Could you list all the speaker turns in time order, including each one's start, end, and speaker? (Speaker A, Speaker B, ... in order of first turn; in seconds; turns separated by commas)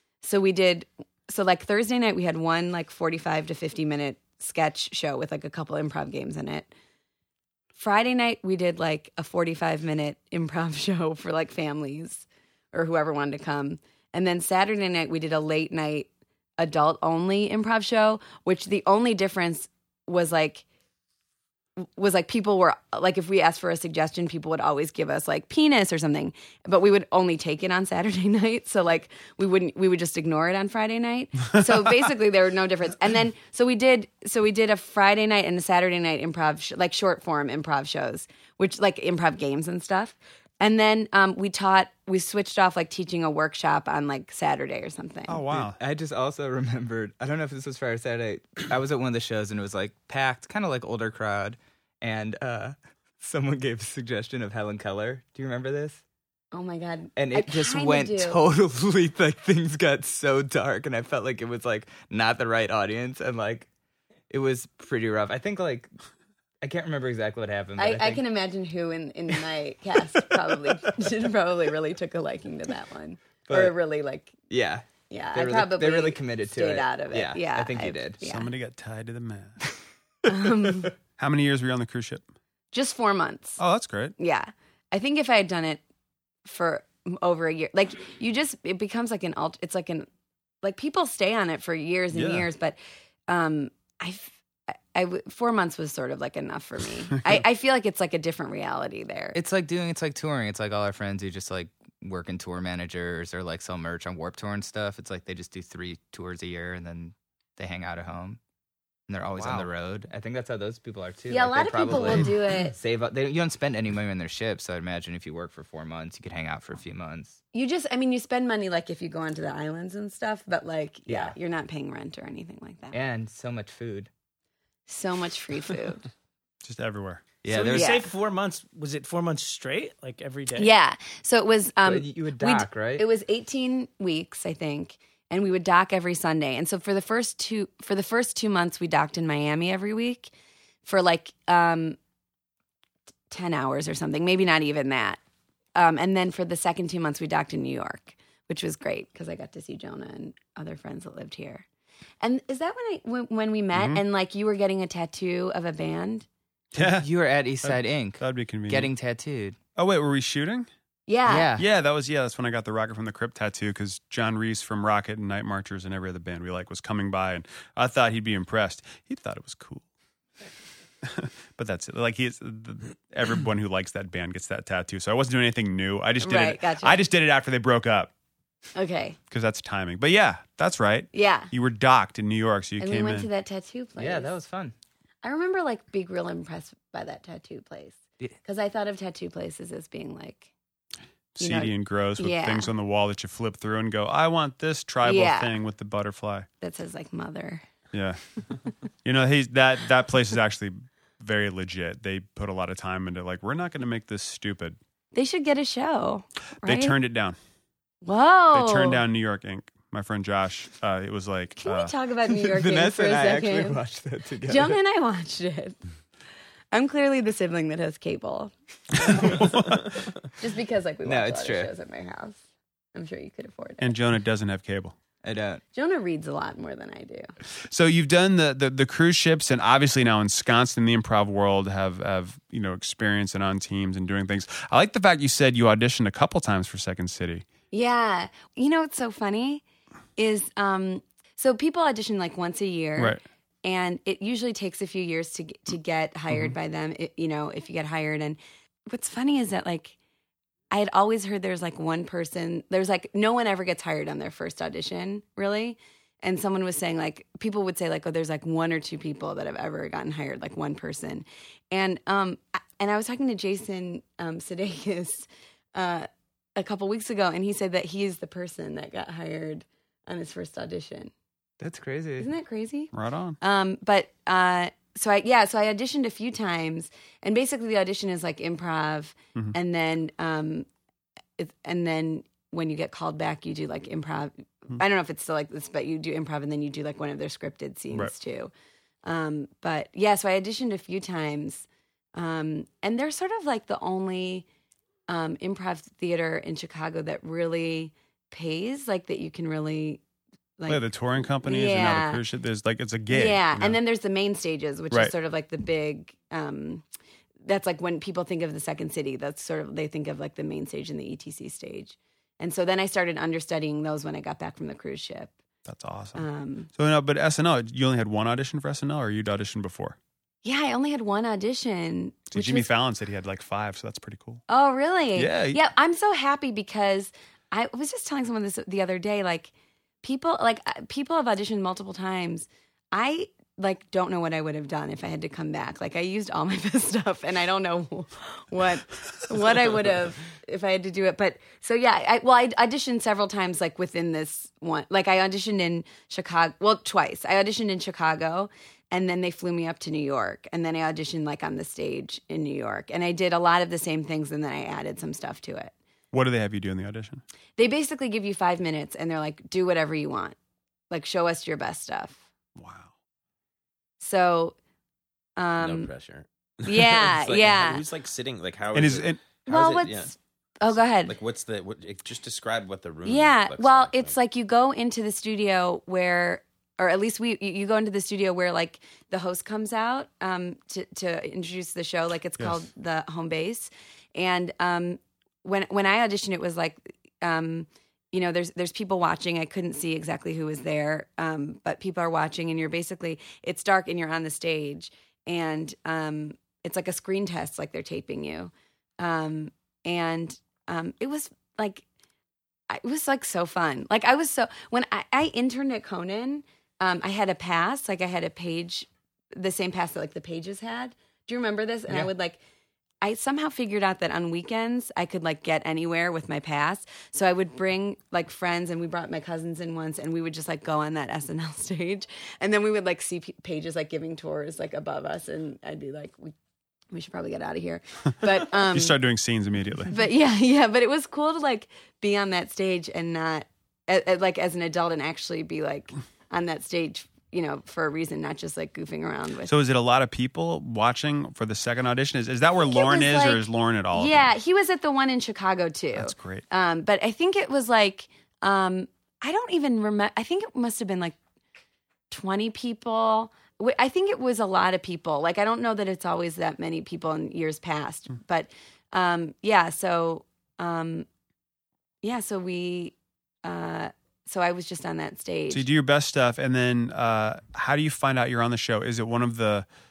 Speaker A: 0.2-6.7, Speaker A: 7.8-20.6, Speaker A: 21.8-45.5, Speaker B: 45.3-45.8, Speaker C: 45.5-56.0, Speaker A: 56.5-58.4, Speaker C: 57.2-63.7, Speaker C: 64.3-65.9, Speaker C: 66.6-68.2, Speaker A: 67.8-74.3, Speaker C: 73.5-73.7, Speaker C: 74.5-78.2, Speaker A: 75.1-78.5, Speaker B: 78.2-79.6, Speaker A: 80.2-80.9, Speaker B: 81.2-82.2, Speaker A: 82.7-83.6, Speaker B: 83.6-84.1, Speaker A: 84.2-85.8, Speaker A: 86.4-90.1, Speaker A: 90.6-92.8, Speaker B: 92.1-92.5, Speaker A: 93.3-99.4, Speaker C: 99.3-108.4, Speaker C: 109.1-117.4, Speaker B: 109.3-109.7, Speaker A: 111.3-112.8, Speaker A: 117.5-123.0, Speaker C: 121.1-121.3, Speaker C: 122.9-124.1, Speaker A: 124.9-126.0, Speaker B: 126.6-127.2, Speaker C: 127.4-128.0, Speaker D: 127.5-130.7, Speaker A: 127.7-128.0, Speaker A: 130.5-140.3, Speaker C: 131.8-133.0, Speaker A: 140.8-142.0, Speaker A: 143.3-145.2, Speaker A: 145.8-151.6, Speaker A: 152.2-156.2, Speaker B: 153.7-154.0, Speaker B: 156.7-157.1, Speaker C: 156.8-159.6, Speaker B: 157.6-158.9, Speaker B: 159.8-160.7, Speaker A: 161.1-161.5, Speaker C: 161.3-161.6, Speaker B: 161.6-169.8, Speaker B: 171.0-178.1, Speaker A: 176.2-177.0, Speaker A: 178.7-179.2, Speaker B: 179.3-183.3, Speaker A: 181.1-181.5, Speaker A: 182.8-184.3, Speaker C: 184.0-184.7, Speaker A: 185.2-190.5, Speaker B: 191.3-196.4, Speaker A: 191.4-192.7, Speaker A: 195.0-195.5, Speaker A: 196.6-197.6, Speaker B: 197.9-198.2, Speaker B: 199.0-204.8, Speaker A: 205.1-206.9, Speaker B: 206.6-207.3, Speaker A: 208.0-209.0, Speaker B: 208.5-211.9, Speaker A: 211.6-213.8, Speaker C: 212.4-214.8, Speaker A: 214.4-215.8, Speaker A: 216.7-222.4, Speaker B: 219.2-219.8, Speaker C: 221.0-221.7, Speaker A: 222.9-223.9, Speaker B: 223.8-224.9, Speaker C: 225.2-225.6, Speaker A: 225.7-227.3, Speaker B: 227.6-237.4, Speaker A: 237.7-239.6, Speaker A: 240.2-249.9, Speaker A: 250.7-271.1, Speaker C: 271.6-272.3, Speaker A: 272.2-280.6, Speaker B: 272.9-273.4, Speaker A: 281.4-288.5, Speaker A: 289.0-294.4, Speaker A: 295.1-300.0, Speaker A: 300.6-300.9, Speaker B: 300.7-303.8, Speaker A: 301.4-302.2, Speaker A: 303.1-306.8, Speaker A: 307.4-315.3, Speaker B: 315.6-316.2, Speaker A: 316.1-316.7, Speaker B: 316.7-320.0, Speaker A: 320.4-322.7, Speaker B: 322.3-324.4, Speaker A: 324.5-329.5, Speaker B: 325.1-325.6, Speaker A: 330.0-355.7, Speaker B: 356.1-357.2, Speaker A: 357.6-360.4, Speaker A: 360.9-362.2, Speaker B: 362.6-362.9, Speaker A: 364.0-364.6, Speaker A: 365.4-365.9, Speaker E: 365.6-370.1, Speaker A: 366.6-367.8, Speaker B: 368.7-369.2, Speaker A: 369.5-371.2, Speaker E: 370.7-374.1, Speaker A: 373.0-401.8, Speaker B: 382.4-382.6, Speaker A: 402.7-412.4, Speaker A: 413.0-426.3, Speaker A: 426.9-429.0, Speaker B: 428.2-429.9, Speaker A: 429.9-439.5, Speaker B: 439.4-444.3, Speaker A: 442.7-443.4, Speaker A: 443.9-451.1, Speaker B: 445.9-446.4, Speaker A: 452.1-461.1, Speaker A: 462.0-465.6, Speaker B: 465.5-469.7